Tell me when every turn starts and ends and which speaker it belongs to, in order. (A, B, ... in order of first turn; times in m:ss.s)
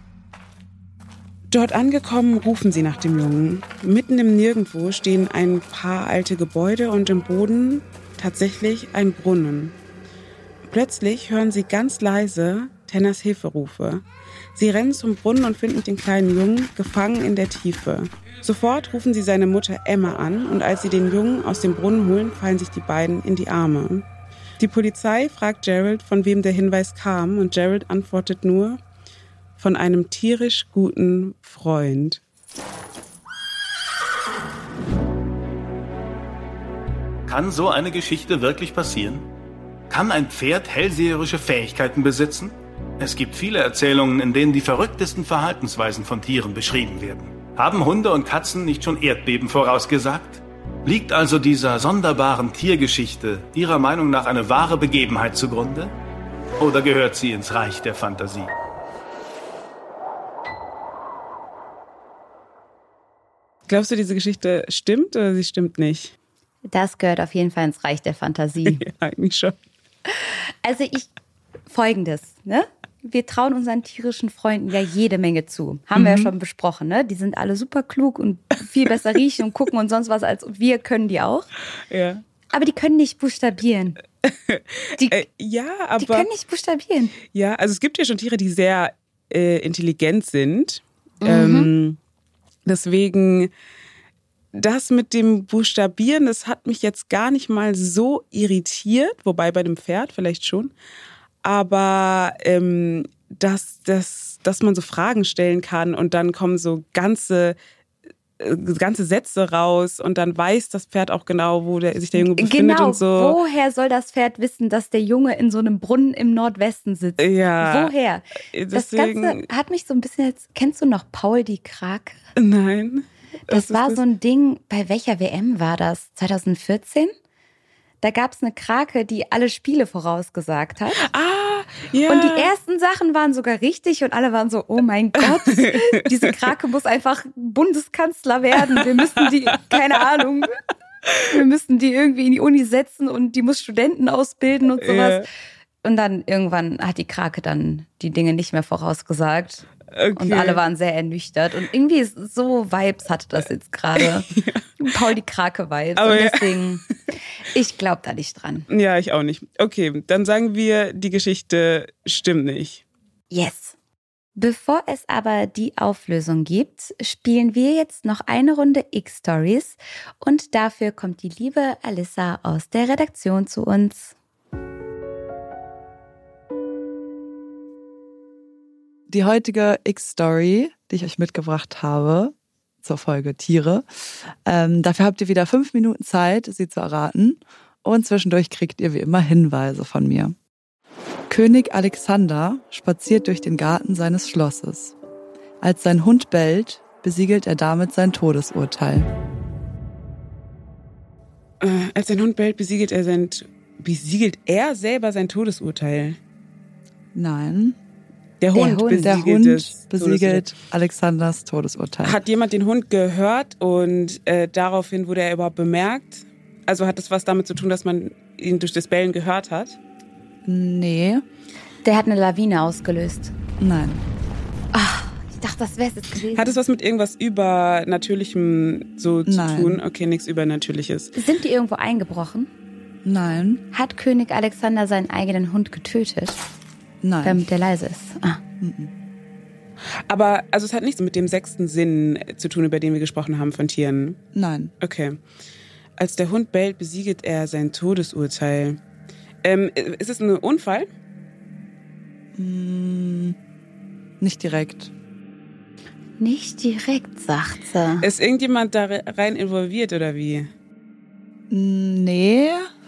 0:01.5-0:09.8 A
0:10.6-0:14.0 A
0:14.5-0:24.1 A
0:24.6-0:28.8 A
0:29.6-0:32.2 A
0:37.3-0:39.2 B
0:39.9-0:55.9 B
0:56.6-0:58.5 B
1:03.7-1:06.1 A
1:06.7-1:08.8 C
1:08.6-1:09.6 A
1:10.1-1:11.1 C
1:11.7-1:21.5 C
1:15.9-1:16.3 A
1:21.9-1:22.2 A
1:22.5-1:24.0 C
1:24.2-1:26.3 A
1:25.0-1:25.2 C
1:26.0-1:27.2 C
1:27.2-1:32.0 A
1:31.2-1:31.7 C
1:32.6-1:33.5 A
1:34.5-1:40.7 A
1:41.4-1:47.6 A
1:48.4-1:53.4 A
1:52.1-2:02.2 C
1:57.2-1:57.9 A
1:58.5-1:59.4 A
2:02.3-2:04.0 A
2:03.5-2:07.1 C
2:08.0-2:11.1 C
2:11.0-2:12.5 A
2:12.1-2:20.6 C
2:15.2-2:16.3 A
2:18.7-2:19.7 A
2:21.3-2:25.2 C
2:24.8-2:25.3 A
2:25.8-2:38.7 C
2:29.9-2:30.6 A
2:34.0-2:34.7 A
2:36.0-2:36.6 A
2:38.7-2:42.8 A
2:43.3-2:43.8 C
2:44.4-2:54.1 C
2:59.1-3:10.3 D
3:11.3-3:14.9 D
3:15.6-3:19.1 D
3:21.6-3:26.2 A
3:27.1-3:27.8 D
3:28.4-3:30.5 A
3:28.5-3:29.1 C
3:28.9-3:32.2 D
3:32.0-3:39.8 A
3:40.4-3:41.2 D
3:41.8-3:43.3 C
3:43.6-3:44.0 D
3:44.7-3:46.6 C
3:46.3-3:51.1 A
3:49.3-3:49.8 D
3:51.2-3:52.5 C
3:53.0-3:53.6 D
3:53.7-3:56.4 C
3:57.0-3:57.4 D
3:57.2-3:58.4 C
3:58.6-3:58.9 D
4:00.1-4:04.2 A
4:04.3-4:04.7 D
4:04.8-4:05.2 A
4:06.0-4:08.8 A
4:09.4-4:10.9 A
4:12.4-4:13.3 D
4:14.2-4:14.9 D
4:16.2-4:18.1 C
4:18.0-4:20.5 A
4:21.5-4:22.7 D